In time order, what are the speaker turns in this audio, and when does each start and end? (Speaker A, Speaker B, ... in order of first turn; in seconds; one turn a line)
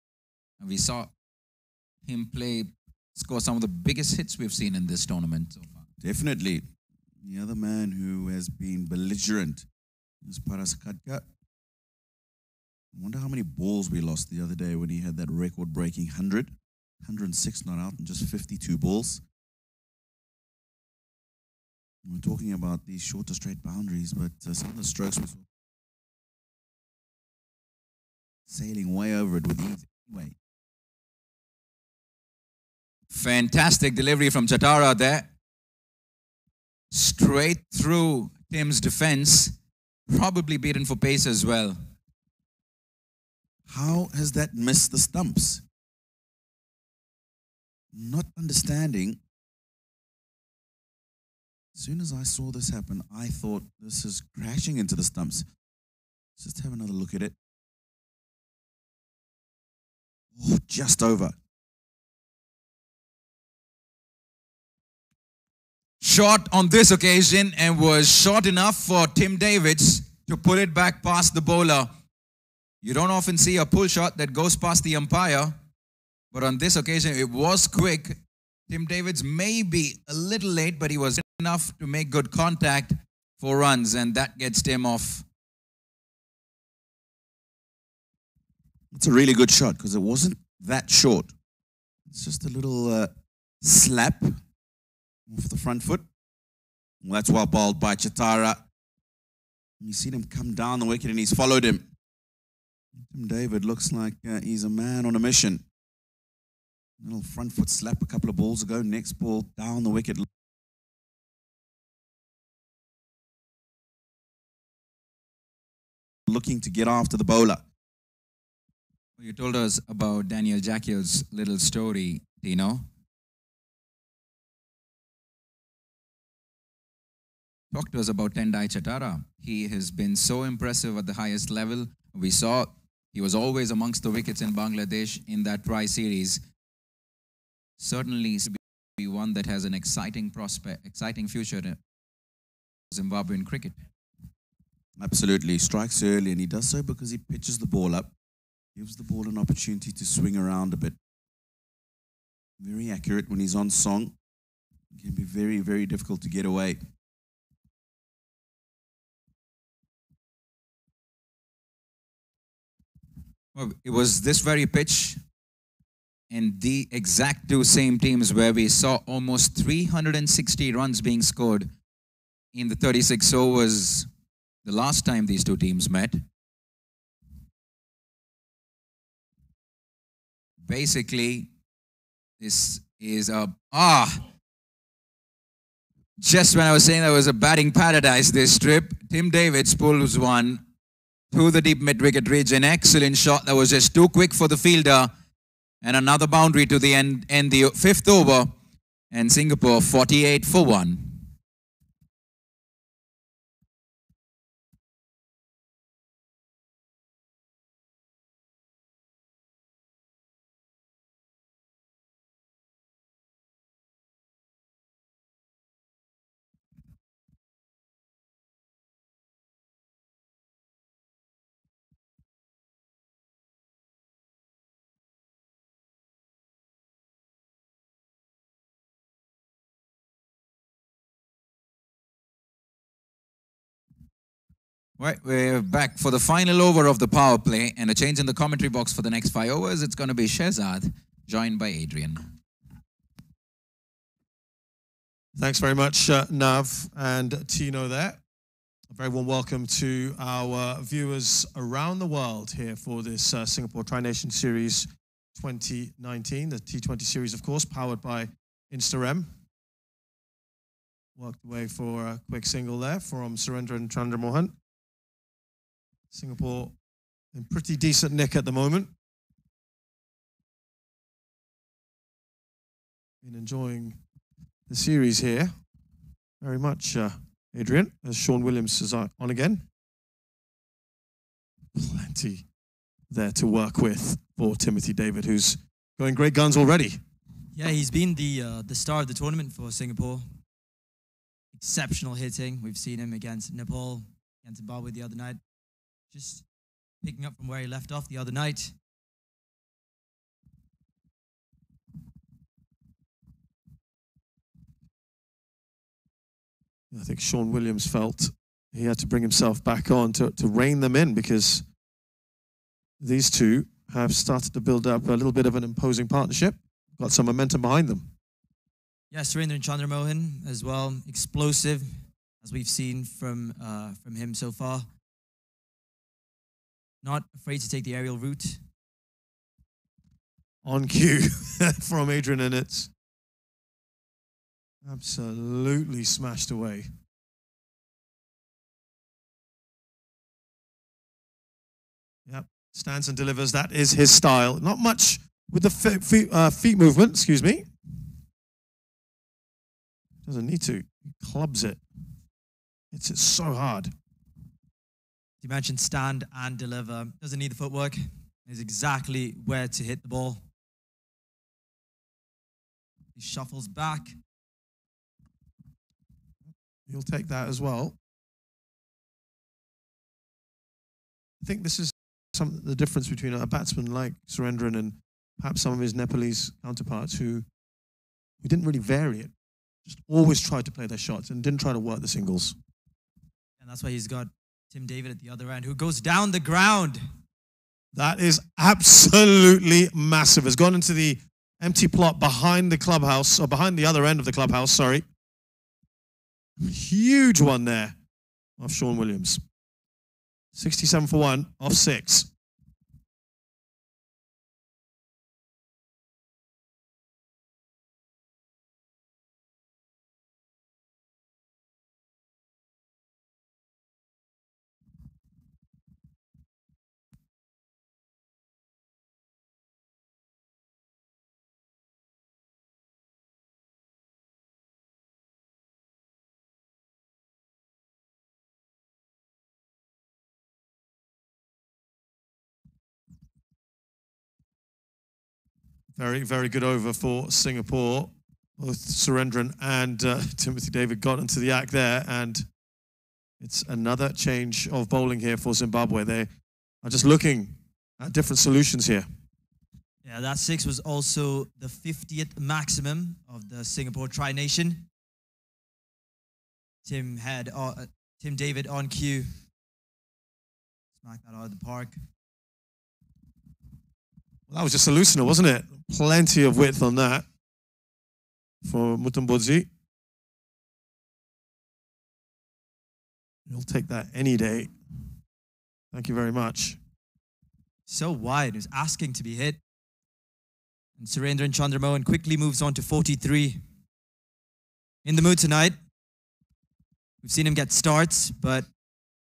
Speaker A: 0.6-1.1
Speaker A: 2.0-5.8
Speaker B: 6.0-6.7
Speaker B: 7.2-9.7
Speaker B: 10.2-11.2
Speaker B: 12.9-19.2
Speaker B: 22.0-25.4
Speaker B: 28.5-30.4
Speaker A: 33.1-35.3
Speaker A: 36.9-39.5
Speaker A: 40.1-41.8
Speaker B: 43.7-45.6
Speaker B: 47.9-49.2
Speaker B: 51.7-55.5
Speaker B: 56.4-57.4
Speaker B: 60.4-61.3
Speaker A: 66.0-71.9
Speaker A: 72.8-75.6
Speaker A: 76.3-85.2
Speaker B: 88.9-91.3
Speaker B: 92.1-94.4
Speaker B: 95.3-96.0
Speaker B: 97.0-98.6
Speaker B: 99.8-101.9
Speaker B: 103.0-105.6
Speaker B: 107.0-110.3
Speaker B: 116.3-117.6
Speaker A: 119.2-122.8
Speaker A: 127.7-136.4
Speaker A: 137.8-141.8
Speaker A: 142.9-143.8
Speaker B: 145.0-148.1
Speaker B: 148.7-151.0
Speaker B: 152.6-154.1
Speaker B: 154.9-156.8
Speaker A: 163.5-165.2
Speaker A: 166.3-171.7
Speaker A: 172.5-174.1
Speaker A: 174.6-176.2
Speaker A: 180.6-181.5
Speaker A: 182.4-184.2
Speaker A: 186.2-190.6
Speaker A: 191.3-195.1
Speaker A: 195.8-198.5
Speaker A: 199.1-201.3
Speaker A: 235.0-242.2
Speaker C: 245.3-248.2
Speaker C: 248.9-259.3
Speaker C: 261.1-264.5
Speaker C: 266.1-266.8
Speaker C: 267.3-268.9
Speaker C: 273.2-274.0
Speaker C: 274.7-275.6
Speaker C: 276.4-279.6
Speaker C: 281.7-282.4
Speaker C: 283.1-287.0
Speaker D: 287.5-290.4
Speaker D: 291.5-295.4
Speaker D: 296.1-296.5
Speaker D: 297.0-298.8
Speaker C: 306.9-311.6
Speaker C: 313.0-318.1
Speaker D: 319.1-324.9
Speaker D: 327.0-328.6
Speaker C: 330.6-332.9
Speaker C: 334.8-336.9
Speaker C: 342.2-347.7
Speaker C: 350.2-351.8
Speaker C: 352.9-353.9
Speaker D: 355.4-360.5
Speaker D: 363.1-364.2
Speaker C: 366.9-367.9
Speaker C: 371.4-377.4
Speaker C: 378.4-379.3
Speaker C: 379.8-382.6
Speaker D: 383.6-387.0
Speaker C: 387.9-395.1
Speaker C: 396.6-397.9
Speaker C: 398.6-399.4
Speaker C: 400.5-402.3
Speaker C: 435.9-442.5
Speaker C: 443.4-446.3
Speaker C: 446.8-449.1
Speaker D: 450.0-454.9
Speaker D: 456.8-459.3
Speaker D: 460.9-462.0
Speaker C: 464.5-467.2
Speaker C: 468.6-469.7
Speaker C: 473.4-474.7
Speaker C: 475.9-476.8
Speaker D: 477.9-479.6
Speaker D: 481.0-483.6
Speaker D: 485.0-485.8
Speaker D: 487.2-488.7